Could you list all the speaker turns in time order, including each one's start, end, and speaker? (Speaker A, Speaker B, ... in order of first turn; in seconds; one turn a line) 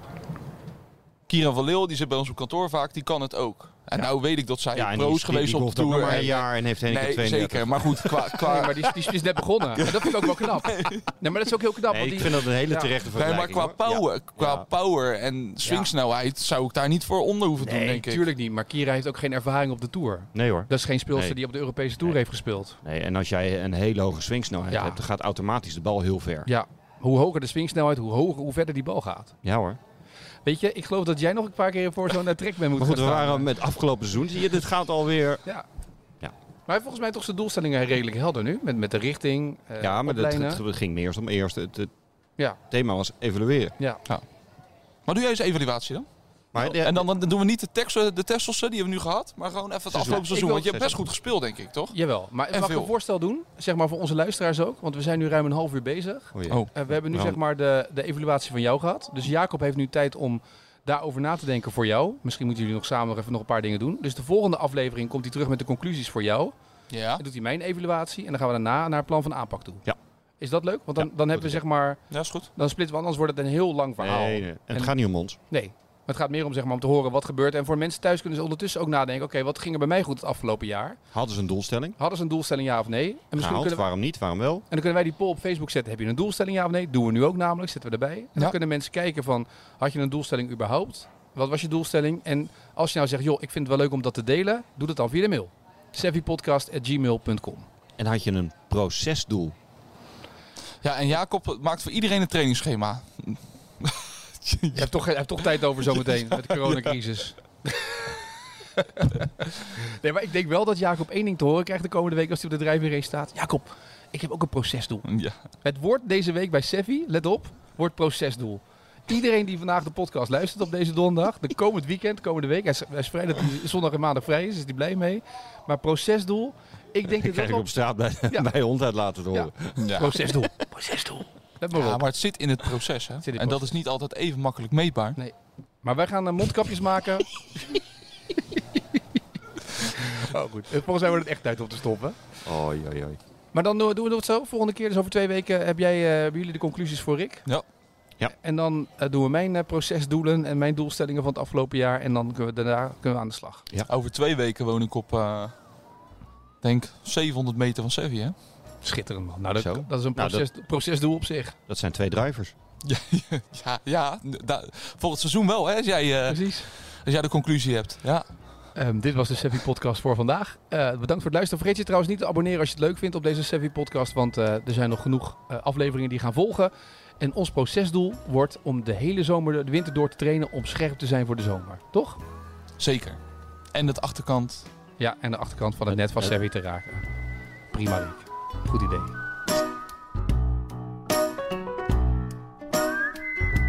Speaker A: 1.3-9.1
Speaker B: 4.7-8.3
Speaker C: 6.1-6.4
Speaker C: 8.4-12.9
Speaker A: 9.8-11.1
Speaker B: 11.9-14.7
Speaker A: 13.1-18.2
Speaker C: 15.6-15.9
Speaker C: 17.6-22.8
Speaker B: 20.3-21.4
Speaker B: 22.8-26.5
Speaker C: 24.7-25.0
Speaker C: 26.5-29.3
Speaker B: 29.4-29.8
Speaker C: 30.4-33.5
Speaker B: 32.8-35.5
Speaker C: 36.7-40.6
Speaker B: 39.8-41.9
Speaker B: 42.7-43.8
Speaker A: 45.1-52.0
Speaker B: 46.5-47.1
Speaker B: 49.9-51.1
Speaker C: 50.1-50.4
Speaker C: 51.9-66.5
Speaker A: 52.5-52.9
Speaker B: 56.3-57.4
Speaker A: 66.9-67.2
Speaker C: 67.2-69.8
Speaker C: 70.4-72.0
Speaker B: 71.0-71.6
Speaker A: 72.1-72.5
Speaker C: 72.5-74.9
Speaker B: 74.0-75.4
Speaker C: 75.5-81.0
Speaker B: 81.1-82.0
Speaker C: 82.0-83.8
Speaker B: 83.4-84.7
Speaker C: 84.7-97.7
Speaker B: 98.0-99.6
Speaker A: 100.8-104.9
Speaker C: 104.7-115.1
Speaker A: 105.8-106.9
Speaker A: 115.0-115.4
Speaker C: 115.6-127.7
Speaker B: 127.1-129.8
Speaker C: 129.3-132.0
Speaker A: 129.8-130.2
Speaker A: 131.7-135.2
Speaker C: 133.2-133.7
Speaker C: 135.2-137.8
Speaker C: 139.7-142.2
Speaker B: 142.4-143.2
Speaker C: 143.5-147.4
Speaker C: 148.4-153.7
Speaker A: 153.9-155.5
Speaker A: 156.6-158.3
Speaker C: 158.8-161.6
Speaker B: 159.6-160.5
Speaker B: 161.7-162.6
Speaker A: 162.8-168.3
Speaker C: 166.3-166.7
Speaker C: 168.8-182.2
Speaker A: 182.8-183.2
Speaker A: 183.7-184.7
Speaker C: 185.0-187.0
Speaker C: 187.7-189.1